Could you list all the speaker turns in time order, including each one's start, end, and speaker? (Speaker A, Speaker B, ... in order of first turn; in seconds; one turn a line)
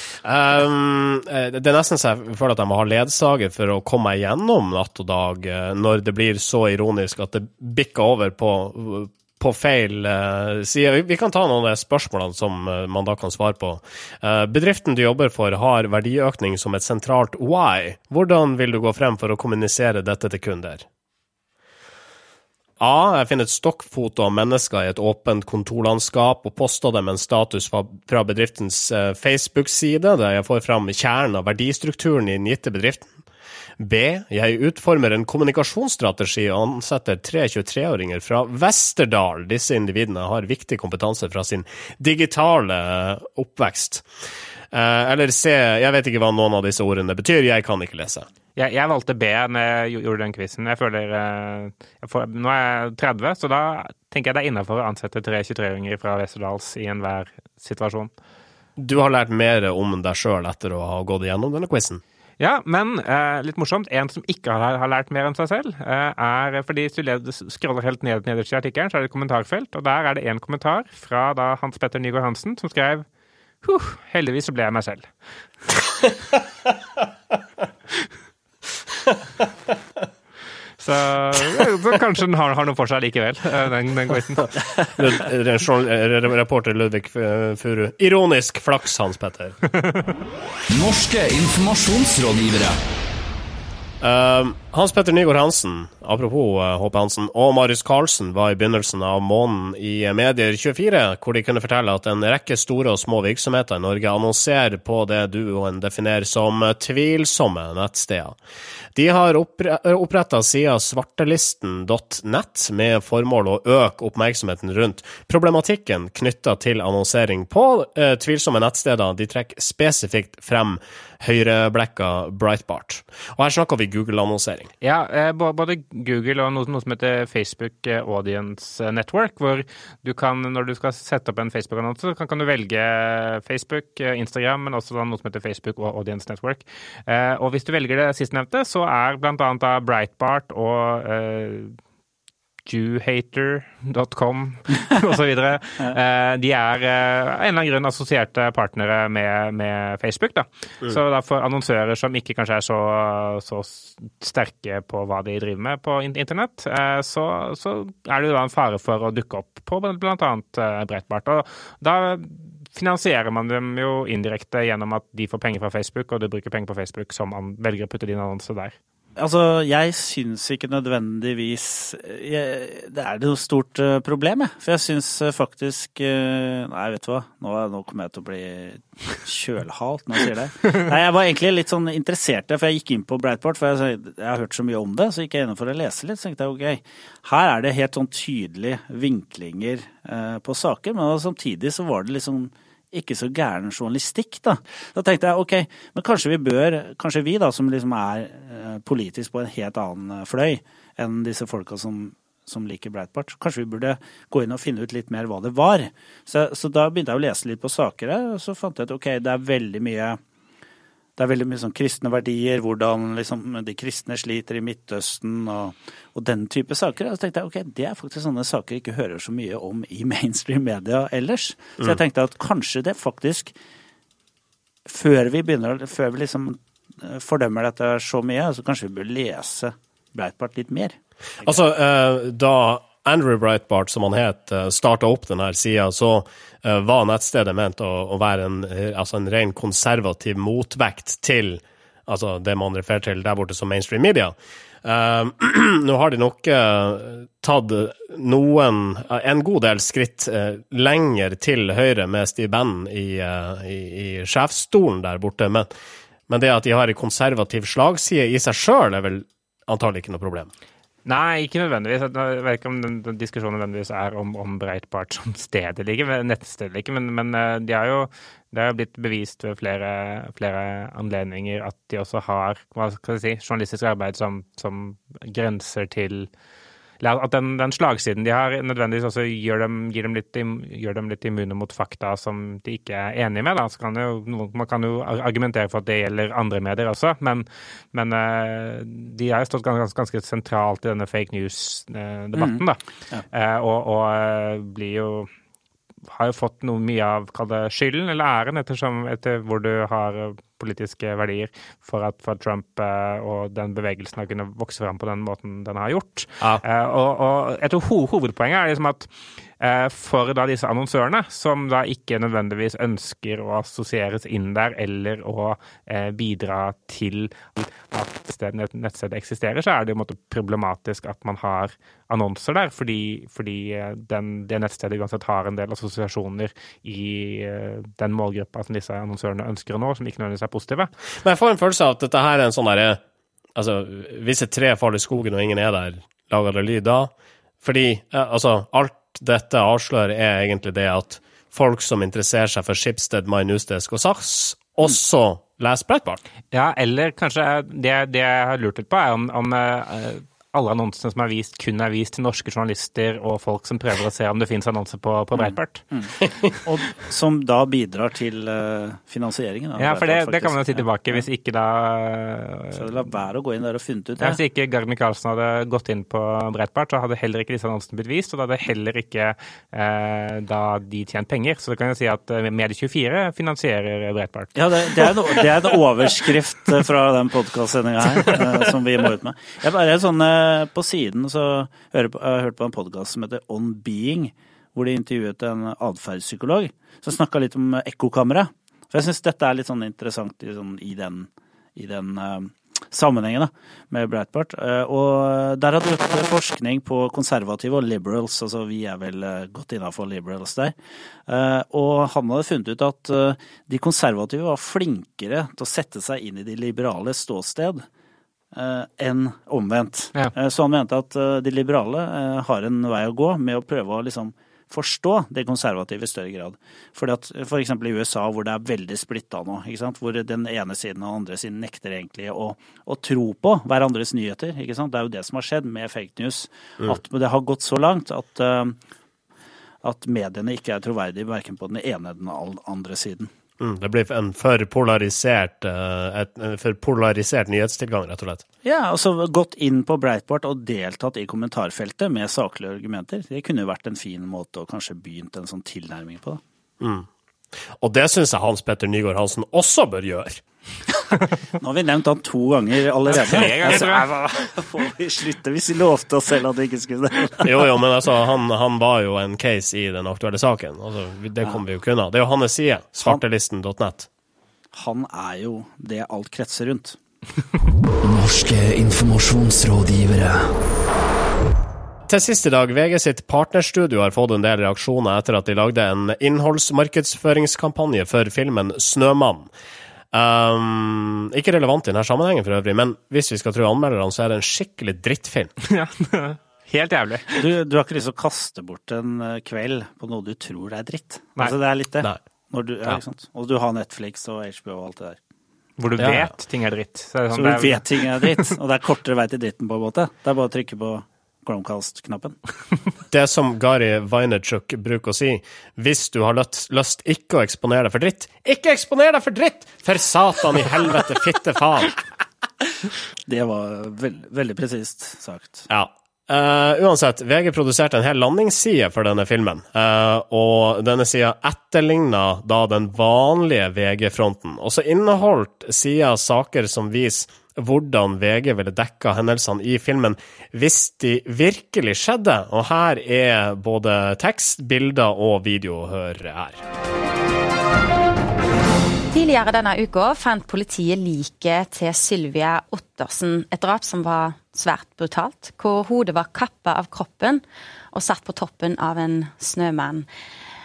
Speaker A: 0.2-20.9
Speaker A: 22.8-33.1
Speaker A: 33.8-44.0
Speaker A: 44.7-48.3
Speaker B: 48.6-58.1
Speaker A: 58.8-62.0
Speaker B: 62.4-73.0
Speaker B: 73.6-75.1
Speaker B: 80.8-84.6
Speaker A: 84.9-89.6
Speaker C: 90.7-92.8
Speaker A: 94.0-108.4
Speaker A: 109.0-124.7
Speaker B: 124.8-141.8
Speaker B: 142.7-168.8
Speaker D: 169.2-210.2
Speaker D: 211.2-223.5
Speaker D: 224.9-231.6
Speaker A: 231.4-255.7
Speaker A: 256.3-260.5
Speaker B: 261.1-276.3
Speaker B: 277.0-292.8
Speaker D: 292.4-293.2
Speaker B: 293.3-295.3
Speaker B: 296.1-309.1
Speaker B: 309.6-330.9
Speaker A: 331.2-333.0
Speaker A: 333.6-346.2
Speaker B: 346.5-355.9
Speaker D: 355.4-361.3
Speaker B: 359.8-362.8
Speaker D: 362.7-364.4
Speaker B: 364.2-375.1
Speaker D: 374.6-400.8
Speaker D: 401.3-407.9
Speaker D: 408.5-428.8
Speaker D: 429.8-433.3
Speaker A: 433.6-438.4
Speaker D: 438.6-446.4
Speaker A: 446.8-447.1
Speaker A: 447.8-450.4
Speaker D: 451.5-457.6
Speaker B: 453.1-454.2
Speaker A: 457.4-464.1
Speaker D: 464.7-467.0
Speaker C: 468.0-470.5
Speaker A: 472.1-479.5
Speaker A: 480.1-485.5
Speaker B: 485.6-487.5
Speaker D: 487.3-495.2
Speaker B: 495.8-498.5
Speaker A: 496.0-496.3
Speaker D: 497.3-502.4
Speaker A: 503.1-512.0
Speaker D: 513.3-515.7
Speaker A: 515.7-536.6
Speaker E: 539.1-550.1